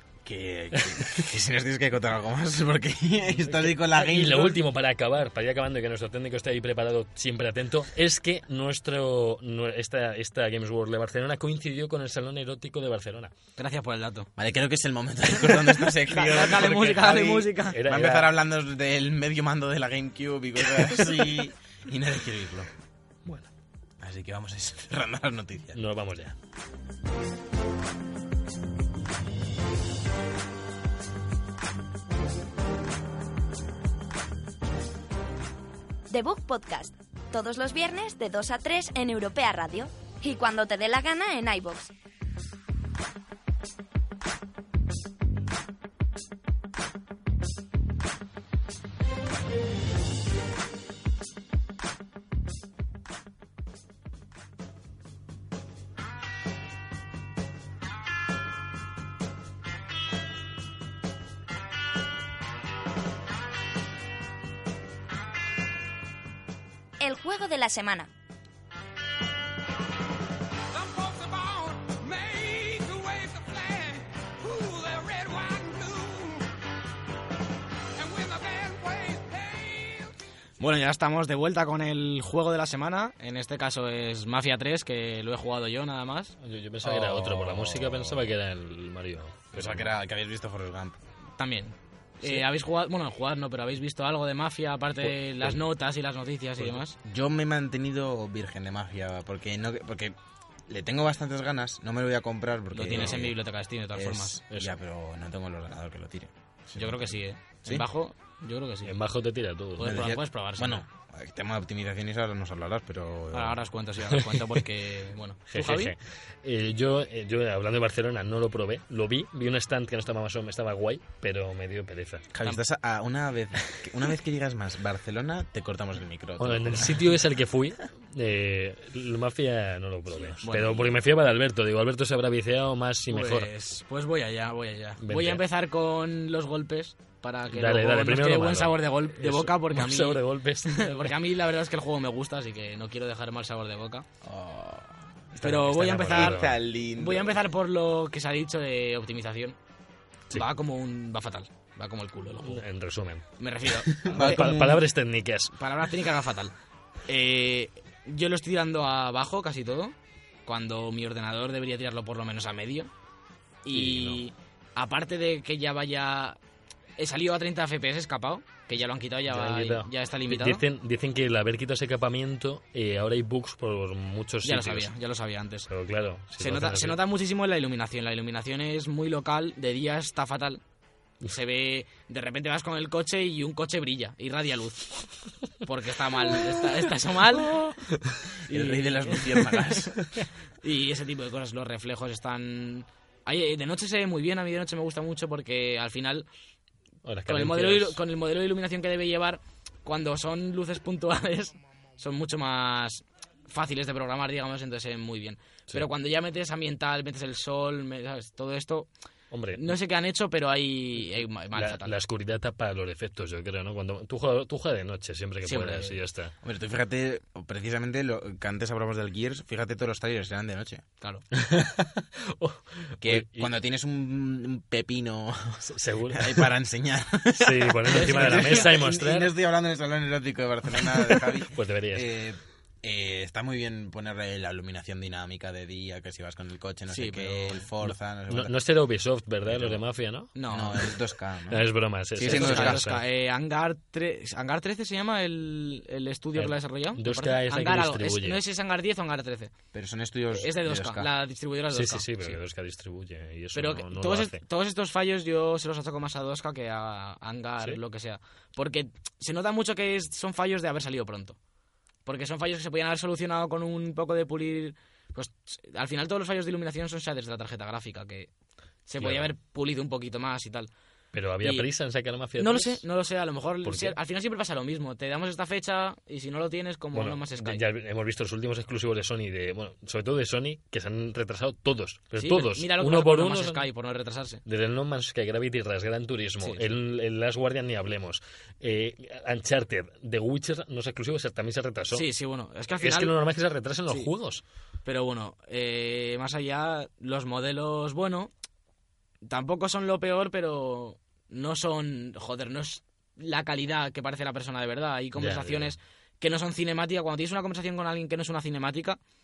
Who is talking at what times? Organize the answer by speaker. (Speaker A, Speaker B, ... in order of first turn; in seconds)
Speaker A: 0.2-4.6, 14.4-22.7, 24.0-25.8, 86.8-88.3, 89.5-91.0, 97.0-100.1, 100.7-103.4, 103.9-107.9, 109.8-113.6, 122.3-127.1, 144.2-144.9, 146.1-147.4, 154.0-154.8, 188.5-190.0, 216.4-220.8, 223.0-238.6, 239.4-239.8, 240.5-242.8, 249.7-251.1
Speaker B: 0.7-1.2, 3.4-13.3, 17.6-18.3, 23.2-23.5, 25.7-26.3, 86.4-89.9, 95.0-95.5, 104.5-104.8, 108.8-110.1, 114.2-114.6, 115.5-122.3, 126.4-133.5, 135.0-135.4, 137.5-141.1, 145.4-146.6, 152.4-153.2, 154.1-155.5, 163.7-164.2, 169.3-174.9, 175.7-177.0, 197.0-198.0, 209.3-209.7, 211.5-216.3, 221.3-223.5, 225.6-226.5, 227.4-229.3, 231.4-232.1, 237.8-240.3, 241.5-243.0, 246.3-248.4, 251.7-254.4, 269.0-269.3, 271.1-272.8, 273.6-274.0, 276.9-283.7, 284.4-292.1, 292.8-294.4, 305.1-305.8
Speaker C: 13.6-14.3, 15.4-17.8, 80.6-86.3, 91.4-97.0, 102.7-104.4, 106.7-108.9, 109.8-110.8, 113.3-115.9, 130.4-131.0, 133.1-144.1, 145.4-149.6, 150.3-152.6, 153.4-154.8, 155.6-156.5, 157.1-159.9, 160.4-162.9, 163.6-166.4, 167.0-170.6, 174.4-175.7, 176.4-180.6, 181.2-184.9, 185.6-187.8, 188.4-189.8, 190.6-196.2, 197.3-208.9, 209.6-211.9, 215.4-216.0, 227.9-228.8, 236.9-237.6, 240.3-240.8, 242.2-249.5, 250.3-252.4, 253.5-261.4, 262.1-268.3, 268.9-270.7, 271.4-271.7, 272.4-277.6, 282.2-284.4, 286.4-286.7, 291.9-293.1, 294.8-298.3, 299.2-309.0
Speaker D: 36.1-41.9, 67.0-68.1
Speaker E: 70.9-73.9, 74.8-76.0, 78.2-79.7